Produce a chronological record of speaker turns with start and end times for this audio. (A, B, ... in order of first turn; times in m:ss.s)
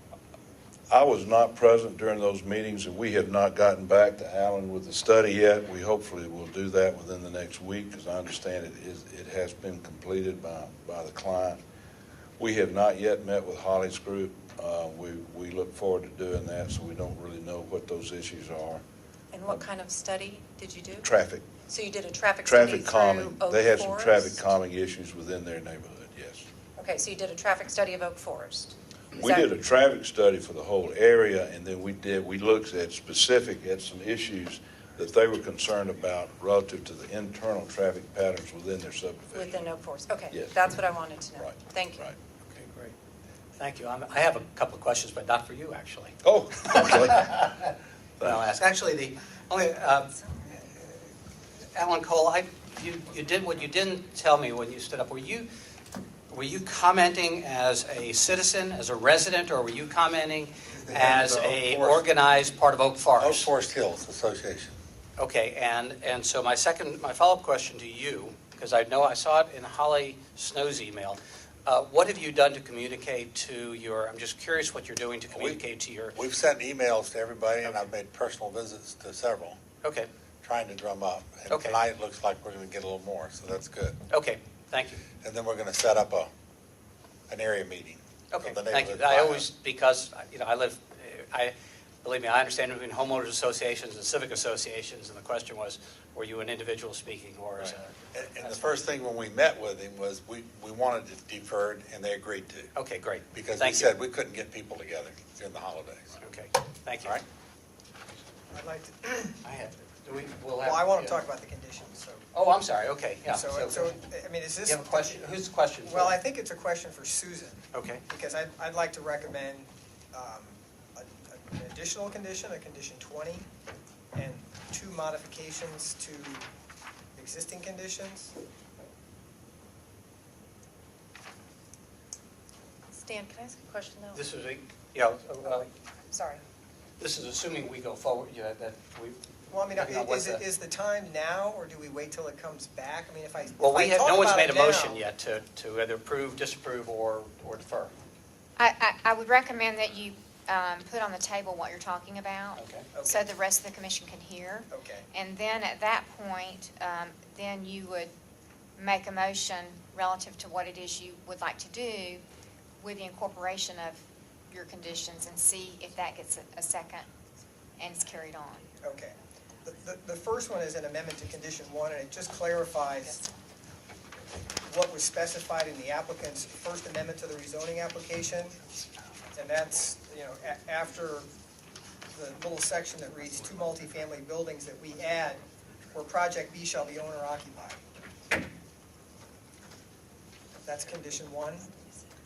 0:00.9-0:11.6 A
0:12.4-0:18.8 A
0:19.3-0:21.1 B
0:21.0-0:21.5 A
0:21.7-0:24.4 B
0:22.4-0:26.4 A
0:26.8-0:29.5 B
0:29.1-0:39.6 A
0:39.3-0:42.0 B
0:40.3-0:40.6 A
0:41.3-0:42.2 A
0:42.5-0:42.9 C
0:43.6-0:46.2 C
0:46.2-0:47.6 A
0:48.2-0:50.2 C
0:51.7-0:55.5 C
0:56.3-1:03.5 C
1:00.9-1:02.0 D
1:03.2-1:04.8 D
1:05.2-1:16.2 C
1:15.3-1:15.6 D
1:16.1-1:19.6 D
1:19.8-1:20.1 C
1:20.4-1:24.0 D
1:21.5-1:21.8 C
1:24.1-1:25.0 C
1:25.2-1:26.3 D
1:27.3-1:29.5 D
1:28.3-1:38.8 C
1:37.6-1:42.7 D
1:42.7-1:43.9 C
1:43.3-1:46.2 D
1:46.2-1:47.2 C
1:48.5-1:49.4 E
1:49.4-1:51.2 C
1:50.6-1:52.2 E
1:52.3-1:54.0 C
1:53.3-1:55.3 E
1:54.6-1:56.2 C
1:55.8-2:03.5 E
1:57.7-1:58.0 C
2:04.1-2:06.5 E
2:07.2-2:08.3 E
2:12.9-2:14.2 B
2:14.1-2:15.7 C
2:15.5-2:16.4 B
2:17.0-2:20.4 C
2:19.5-2:25.0 E
2:23.6-2:27.9 C
2:28.6-2:38.1 F
2:32.6-2:32.9 C
2:32.9-2:33.3 E
2:34.7-2:35.1 E
2:38.8-2:42.2 F
2:42.8-2:47.1 F
2:47.8-2:48.7 F
2:48.8-2:53.2 E
2:54.6-2:58.6 E
2:59.3-3:01.3 E
3:02.1-3:07.8 E
3:10.6-3:11.7 E